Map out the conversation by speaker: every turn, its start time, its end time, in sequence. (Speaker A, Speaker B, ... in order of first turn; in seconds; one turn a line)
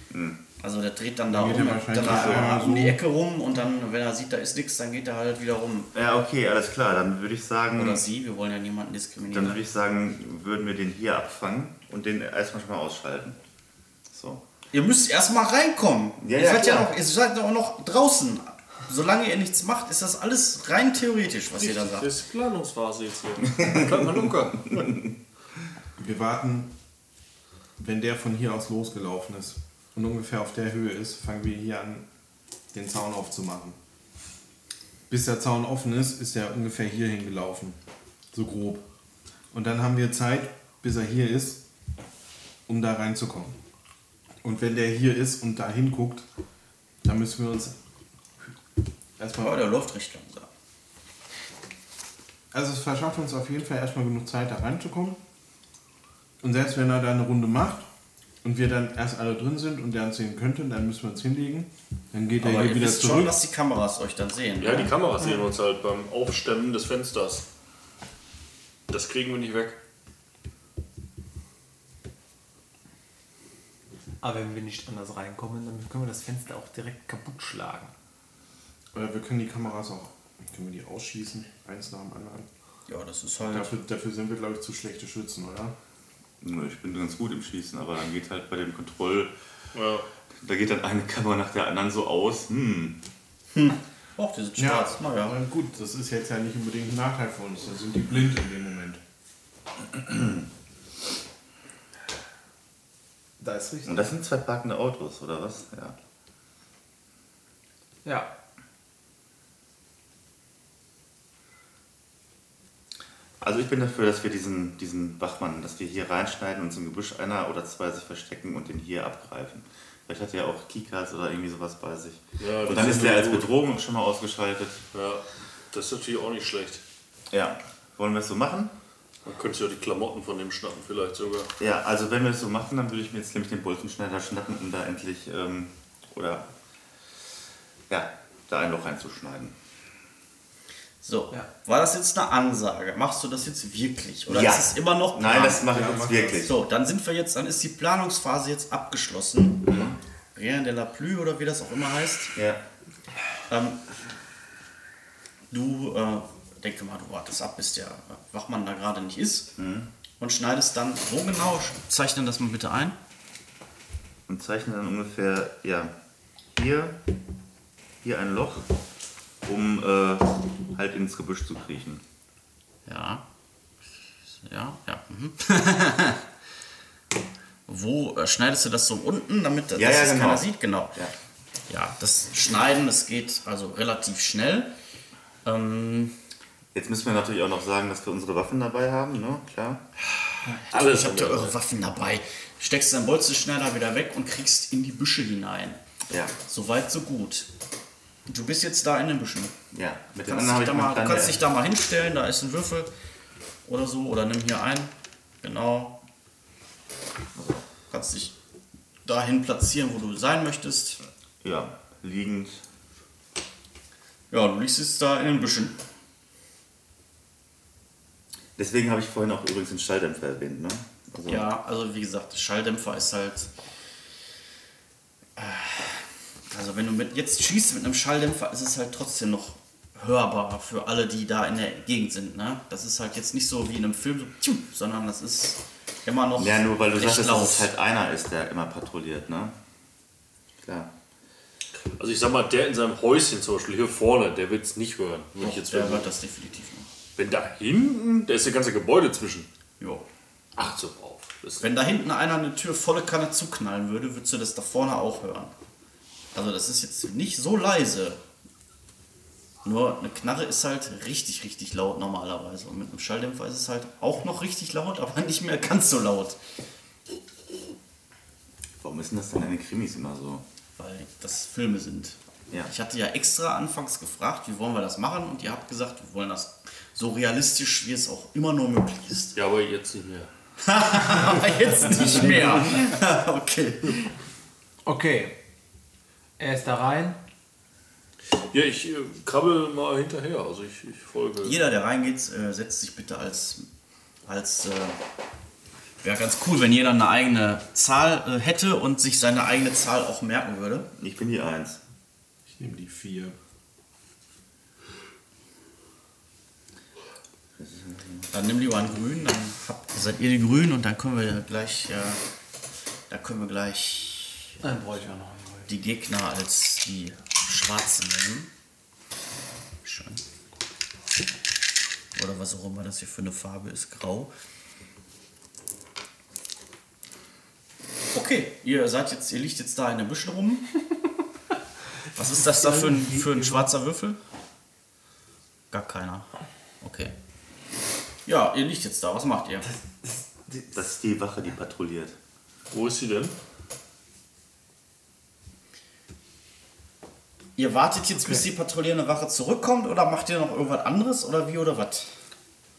Speaker A: 0.1-0.4
Speaker B: 0.6-5.9
Speaker C: 1.3-3.0
Speaker A: 1.9-2.5
Speaker A: 5.9-8.0
Speaker B: 7.7-9.6
Speaker A: 9.3-13.4
Speaker A: 14.1-14.4
Speaker B: 14.7-22.1
Speaker A: 16.2-16.9
Speaker D: 21.6-24.9
Speaker A: 23.6-24.1
Speaker A: 24.7-25.0
Speaker C: 26.0-26.7
Speaker C: 27.8-32.0
Speaker C: 32.7-33.8
Speaker C: 35.1-37.8
Speaker C: 38.3-38.8
Speaker C: 39.5-41.6
Speaker C: 42.7-43.6
Speaker C: 44.4-46.2
Speaker C: 47.0-47.8
Speaker C: 49.2-49.6
Speaker B: 49.4-50.5
Speaker C: 52.5-55.2
Speaker C: 56.4-57.9
Speaker C: 58.4-63.4
Speaker B: 62.4-64.9
Speaker D: 64.6-67.5
Speaker D: 68.9-69.8
Speaker E: 74.2-77.9
Speaker C: 78.9-82.5
Speaker B: 82.9-83.7
Speaker C: 83.4-85.7
Speaker A: 86.4-89.3
Speaker D: 89.7-90.0
Speaker A: 90.4-93.0
Speaker B: 93.5-95.4
Speaker C: 94.6-99.0
Speaker A: 99.9-100.4
Speaker E: 103.4-104.1
Speaker A: 103.8-106.0
Speaker E: 108.0-108.3
Speaker A: 113.4-124.8
Speaker D: 122.4-123.5
Speaker D: 124.9-126.8
Speaker A: 127.3-128.7
Speaker D: 129.2-131.5
Speaker A: 131.6-136.5
Speaker A: 137.9-139.5
Speaker B: 141.0-145.7
Speaker A: 144.3-146.6
Speaker C: 145.7-146.5
Speaker B: 146.4-152.3
Speaker A: 149.6-150.0
Speaker A: 152.3-152.6
Speaker B: 153.5-153.8
Speaker B: 155.5-159.5
Speaker A: 159.6-159.9
Speaker B: 160.2-162.9
Speaker A: 164.3-165.9
Speaker A: 166.5-167.0
Speaker A: 168.0-168.7
Speaker A: 169.4-172.0
Speaker B: 172.8-173.2
Speaker B: 174.4-176.2
Speaker B: 177.7-181.0
Speaker A: 179.8-181.1
Speaker B: 181.7-184.7
Speaker B: 185.4-186.2
Speaker A: 186.7-189.8
Speaker B: 190.4-195.8
Speaker D: 190.6-191.5
Speaker A: 196.1-196.3
Speaker B: 196.4-197.5
Speaker B: 198.3-199.6
Speaker A: 199.7-201.4
Speaker B: 200.2-202.9
Speaker B: 203.7-205.9
Speaker A: 207.3-207.6
Speaker B: 207.9-208.3
Speaker B: 209.0-211.0
Speaker A: 211.4-212.6
Speaker B: 214.3-215.8
Speaker A: 218.6-221.5
Speaker B: 221.3-223.5
Speaker B: 225.4-237.7
Speaker A: 236.4-239.5
Speaker A: 240.6-240.9
Speaker D: 242.0-246.1
Speaker B: 245.4-246.9
Speaker D: 247.2-249.5
Speaker D: 250.6-251.7
Speaker B: 251.6-255.5
Speaker B: 256.3-258.2
Speaker B: 259.6-266.4
Speaker A: 268.8-270.4
Speaker B: 270.8-279.4
Speaker D: 279.3-280.3
Speaker B: 280.6-284.1
Speaker E: 284.8-285.4
Speaker E: 286.4-287.2
Speaker D: 288.5-291.6
Speaker B: 291.4-293.6
Speaker B: 294.2-295.0
Speaker B: 296.0-300.9
Speaker A: 301.0-301.8
Speaker C: 302.5-303.3
Speaker A: 307.6-308.3
Speaker B: 308.3-312.2
Speaker B: 313.1-314.6
Speaker E: 314.6-315.7
Speaker B: 315.6-318.5
Speaker B: 319.8-320.2
Speaker B: 322.1-324.3
Speaker B: 328.1-330.7
Speaker B: 332.1-334.2
Speaker E: 332.3-333.7
Speaker B: 335.7-336.3
Speaker B: 336.8-337.1
Speaker B: 338.2-339.7
Speaker E: 339.6-340.7
Speaker A: 340.7-342.1
Speaker D: 342.7-343.3
Speaker B: 347.6-352.1